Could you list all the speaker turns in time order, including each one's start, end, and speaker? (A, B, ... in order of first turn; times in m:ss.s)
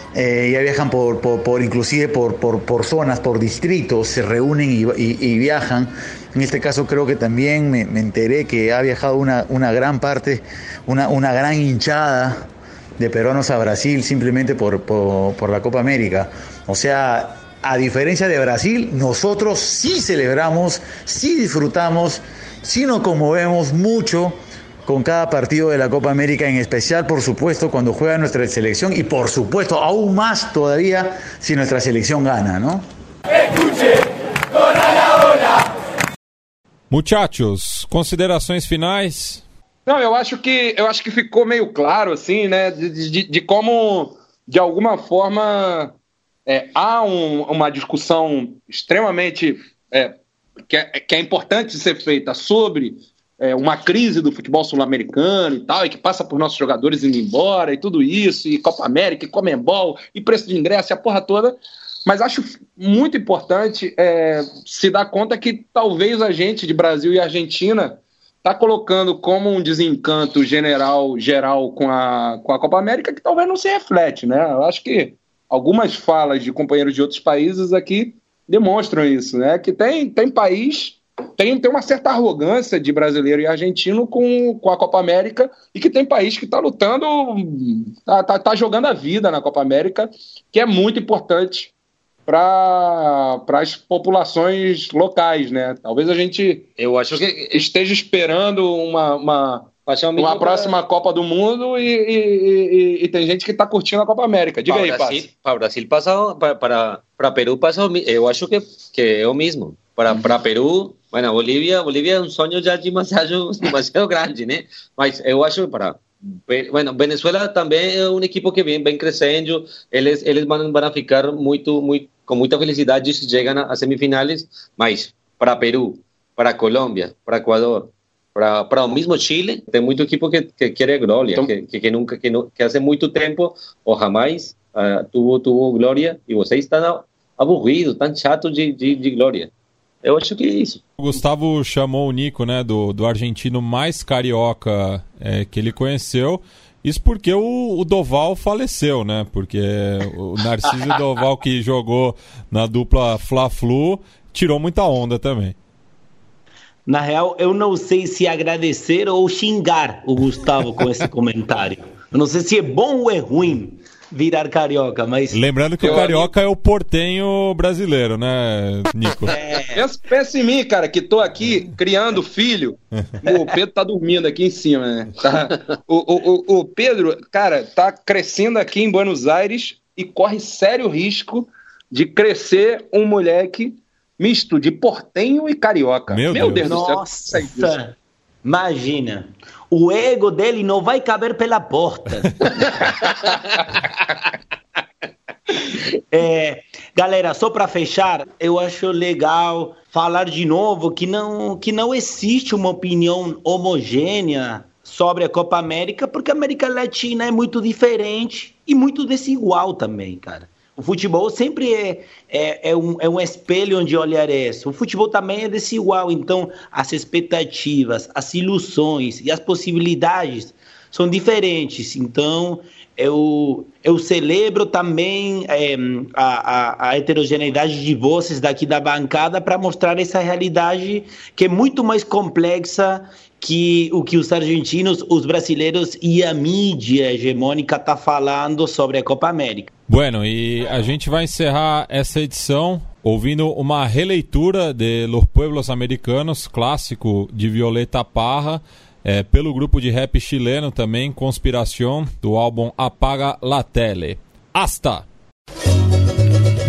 0:00.1-0:12.5 A
0:13.0-0:32.8 A
0:36.9-0:39.4 B
0:39.9-0:45.9 C
0:46.5-0:50.2 C
0:50.7-1:31.7 C
1:32.3-1:45.3 C
1:36.8-1:37.6 D
1:39.9-1:40.7 D
1:44.7-2:19.5 D
2:20.0-2:20.8 D
2:21.0-2:35.6 B
2:36.9-2:46.2 E
2:45.3-2:49.4 B
2:45.8-2:46.3 C
2:49.3-2:49.8 E
2:49.8-3:07.8 C
3:06.1-3:06.9 B
3:06.6-3:12.4 E
3:16.1-3:59.7 E
3:59.9-4:15.1 B